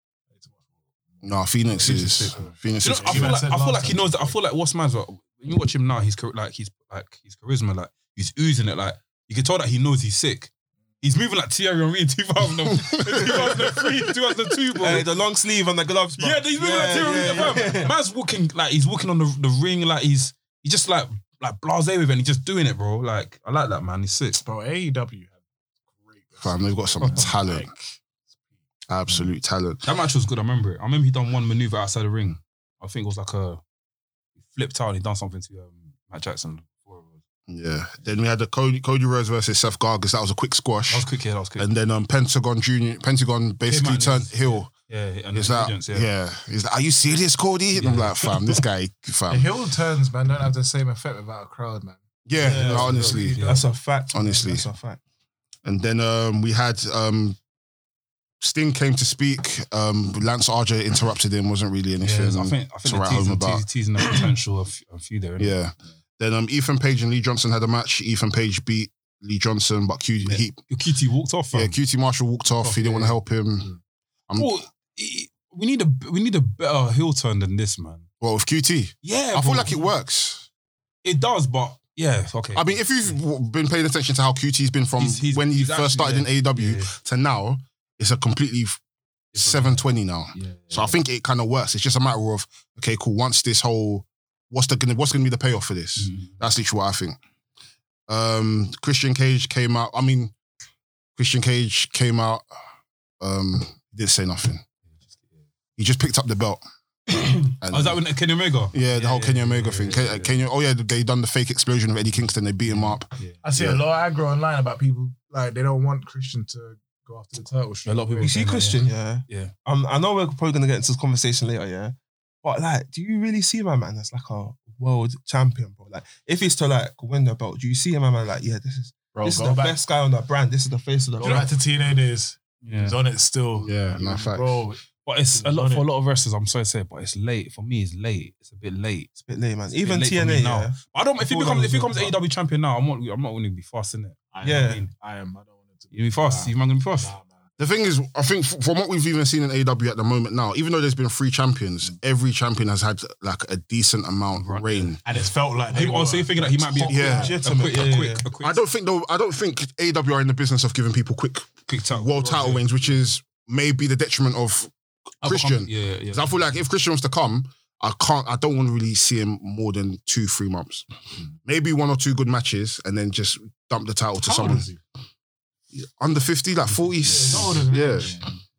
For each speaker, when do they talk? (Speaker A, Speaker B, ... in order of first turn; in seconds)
Speaker A: 0.3-4.4, 24.4-25.4, 26.0-28.0, 49.3-53.6, 113.4-118.4, 129.2-129.8, 131.2-134.8, 135.3-135.9, 144.3-147.4, 155.0-157.4, 174.2-174.8, 177.0-178.3
Speaker B: 1.2-3.4, 12.8-14.0, 26.4-27.7, 28.9-29.8, 37.5-44.7, 45.3-49.5, 52.3-53.4, 54.1-54.6, 55.6-57.4, 58.4-63.6, 65.4-70.6, 71.5-73.7, 78.2-80.5, 82.5-88.8, 89.3-97.2, 98.1-100.3, 101.2-102.5, 103.2-104.7, 105.8-106.6, 107.6-108.0, 108.7-113.8, 133.6-134.6, 147.6-155.0, 156.9-157.3, 158.4-170.9, 171.4-174.7, 175.7-178.2
Speaker C: 1.8-15.1, 16.2-24.4, 29.8-33.6, 34.4-37.2, 40.9-41.7, 43.6-46.1, 47.7-48.6, 52.6-53.7, 62.0-65.6, 70.2-71.8, 72.5-73.2, 74.4-78.1, 79.0-79.9, 81.0-83.1, 85.0-86.9, 89.3-91.0, 96.0-96.4, 105.0-105.4, 107.6-110.4, 112.7-113.4, 117.8-119.5, 132.6-133.0, 135.1-139.1, 139.7-144.9, 145.9-147.1, 154.4-154.9, 155.7-158.6, 161.7-162.6, 165.2-166.3, 177.2-177.8
Speaker D: 14.8-17.9, 27.0-27.3, 52.4-55.0, 118.2-131.5, 139.2-142.2, 144.4-144.8, 156.9-158.3